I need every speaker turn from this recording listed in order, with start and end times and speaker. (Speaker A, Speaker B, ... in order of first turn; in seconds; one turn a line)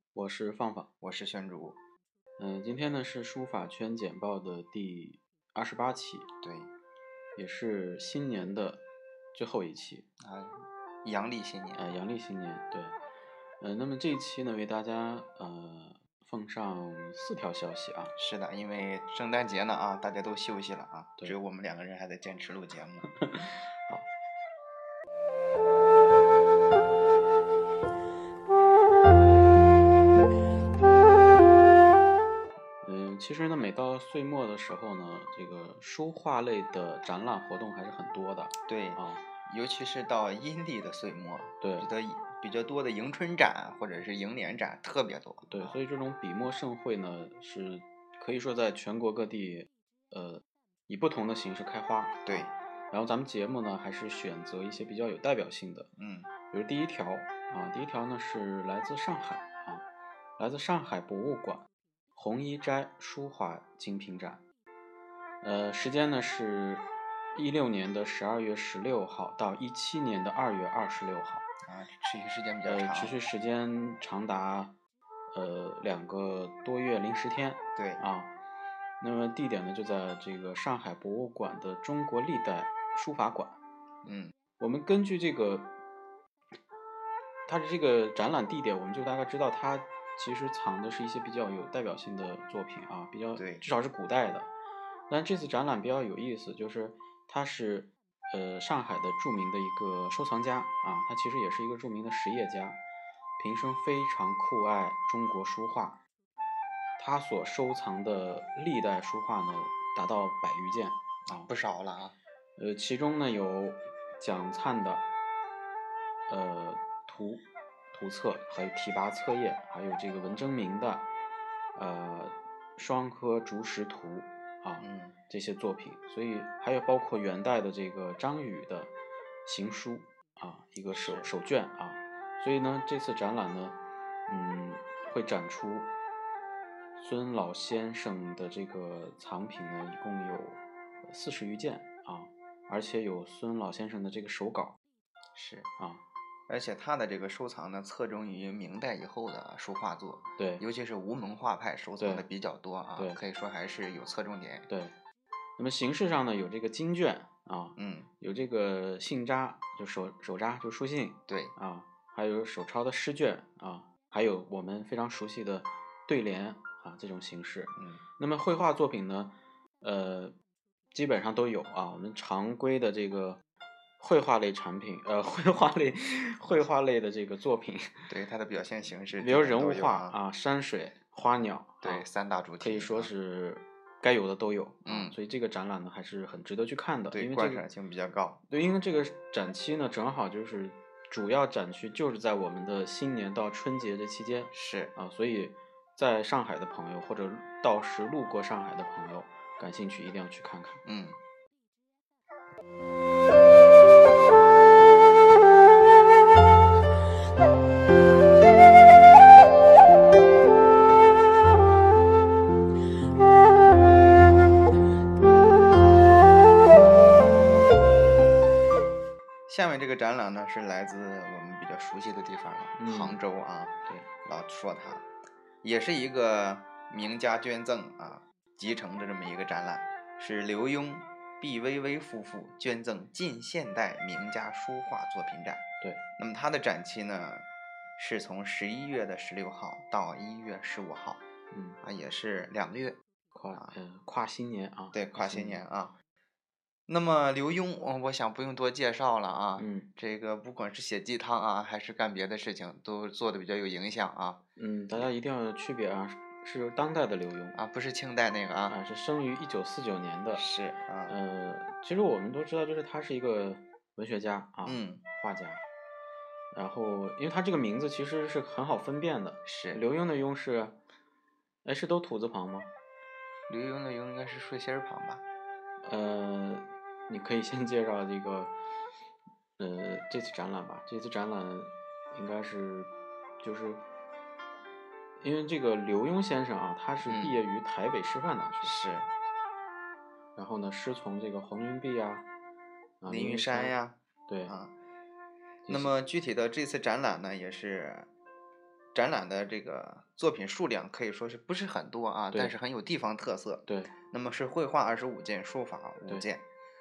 Speaker A: 0.1-0.9
Speaker B: 1.0-1.8
Speaker A: 2.4-6.3
Speaker B: 6.4-6.7
Speaker A: 7.4-8.8
Speaker A: 9.3-10.1
Speaker B: 10.2-11.8
Speaker A: 11.8-13.0
Speaker A: 13.6-18.1
Speaker B: 18.2-23.1
Speaker A: 23.1-24.1
Speaker A: 32.8-39.2
Speaker B: 38.7-45.8
Speaker A: 41.6-41.9
Speaker A: 45.5-55.9
Speaker B: 56.0-56.3
Speaker A: 56.5-59.9
Speaker A: 60.4-64.4
Speaker A: 65.4-71.4
Speaker B: 71.7-73.2
Speaker A: 72.6-74.7
Speaker A: 75.3-78.3
Speaker B: 77.8-78.0
Speaker A: 79.0-83.6
Speaker B: 84.0-84.3
Speaker A: 84.6-85.7
Speaker A: 87.5-94.5
Speaker B: 93.4-93.6
Speaker A: 95.1-102.8
Speaker A: 103.4-106.0
Speaker A: 107.0-111.5
Speaker B: 111.3-112.2
Speaker A: 112.6-115.0
Speaker A: 116.3-121.1
Speaker A: 121.8-128.9
Speaker B: 124.8-125.2
Speaker A: 129.4-135.9
Speaker B: 130.9-131.3
Speaker A: 137.0-144.8
Speaker B: 145.3-145.7
Speaker A: 145.8-146.0
Speaker B: 146.5-154.7
Speaker A: 150.4-150.7
Speaker A: 152.0-152.2
Speaker A: 154.7-154.9
Speaker A: 155.6-170.3
Speaker B: 157.8-158.1
Speaker B: 161.3-161.5
Speaker B: 167.8-168.0
Speaker A: 170.9-173.4
Speaker A: 174.0-178.1
Speaker B: 178.1-180.2
Speaker A: 179.2-182.1
Speaker B: 181.8-183.1
Speaker A: 182.6-187.7
Speaker B: 184.8-185.2
Speaker B: 187.1-188.4
Speaker A: 188.5-200.8
Speaker B: 194.5-194.9
Speaker B: 200.8-201.2
Speaker B: 219.5-225.1
Speaker A: 222.8-223.2
Speaker B: 225.6-235.6
Speaker B: 236.2-237.4
Speaker B: 238.0-241.2
Speaker A: 241.5-241.8
Speaker B: 241.8-243.0
Speaker A: 243.3-245.6
Speaker B: 244.9-245.9
Speaker B: 246.9-254.4
Speaker A: 249.6-249.9
Speaker A: 254.6-257.6
Speaker B: 257.5-258.8
Speaker A: 258.7-260.4
Speaker B: 260.3-261.1
Speaker A: 261.1-265.6
Speaker B: 264.6-265.0
Speaker A: 266.5-270.8
Speaker B: 269.4-269.8
Speaker A: 271.6-272.7
Speaker B: 273.5-275.2
Speaker A: 275.8-278.5
Speaker A: 279.6-283.8
Speaker A: 285.2-288.7
Speaker B: 287.0-287.4
Speaker B: 288.6-289.1
Speaker A: 290.4-292.2
Speaker A: 293.0-294.5
Speaker B: 293.1-294.7
Speaker A: 295.6-295.9
Speaker B: 295.7-298.1
Speaker B: 298.9-306.4
Speaker A: 303.6-303.9